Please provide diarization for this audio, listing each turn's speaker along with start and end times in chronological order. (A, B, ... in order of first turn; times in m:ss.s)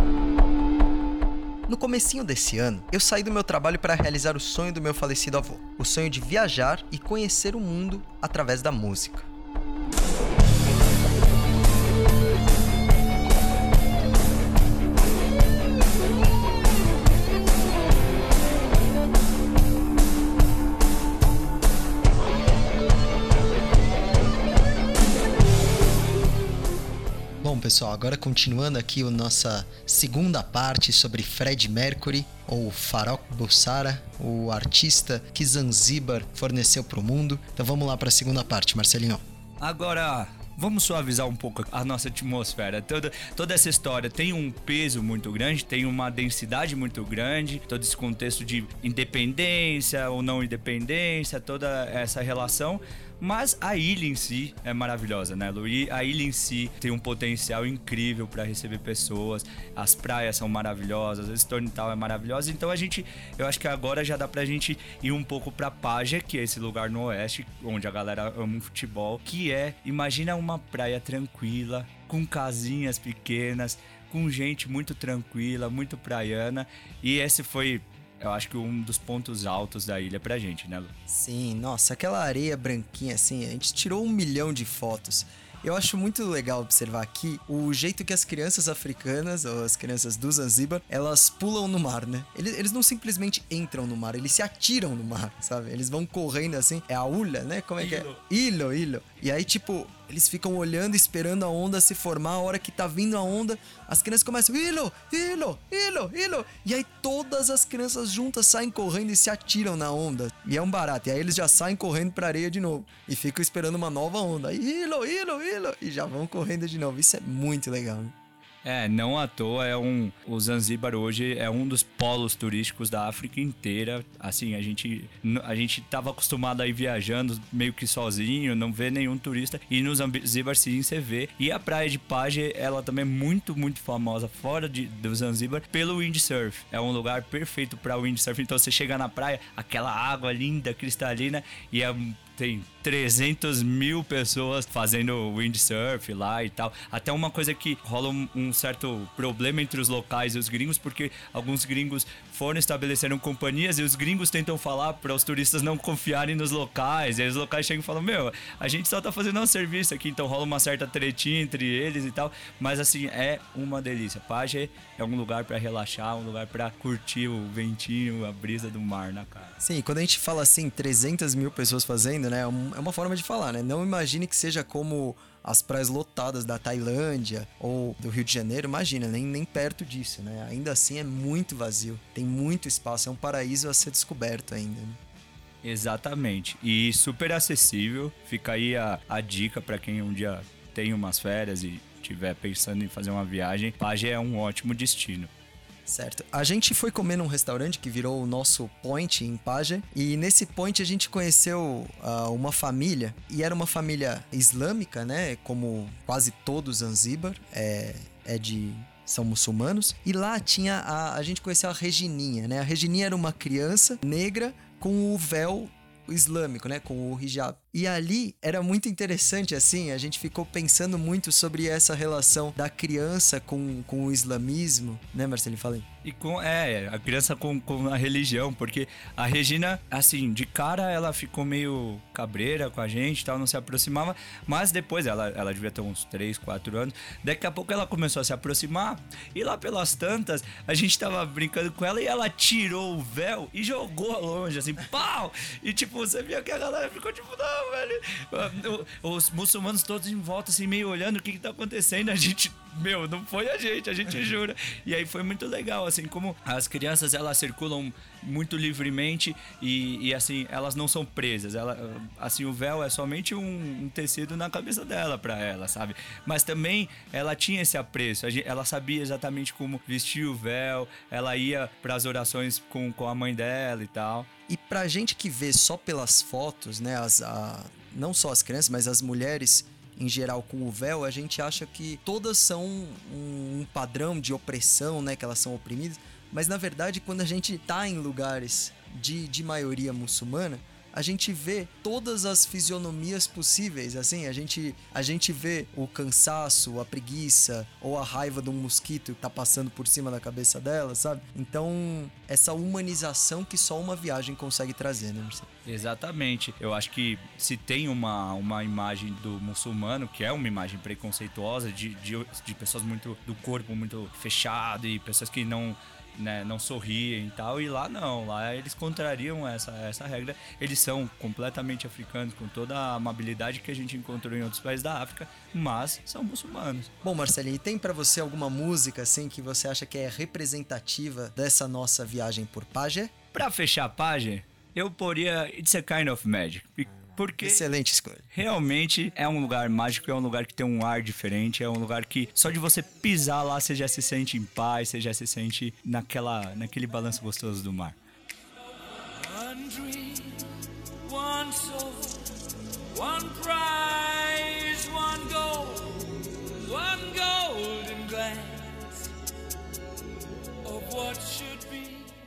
0:01.7-0:09.3 A
0:27.4-0:39.2 A
0:39.6-1:20.9 B
1:21.1-1:58.1 A
1:37.8-1:38.2 B
1:58.6-2:49.6 B
2:49.6-3:05.0 A
3:05.6-3:15.3 B
3:15.9-3:45.8 A
3:46.0-4:34.3 B
4:34.5-5:05.5 A
5:05.7-5:26.9 B
5:27.0-5:33.1 A
5:33.3-5:37.6 B
5:37.4-5:38.2 A
5:38.3-5:48.0 B
5:49.1-5:52.4 B
5:52.9-5:59.0 B
6:00.6-6:02.1 B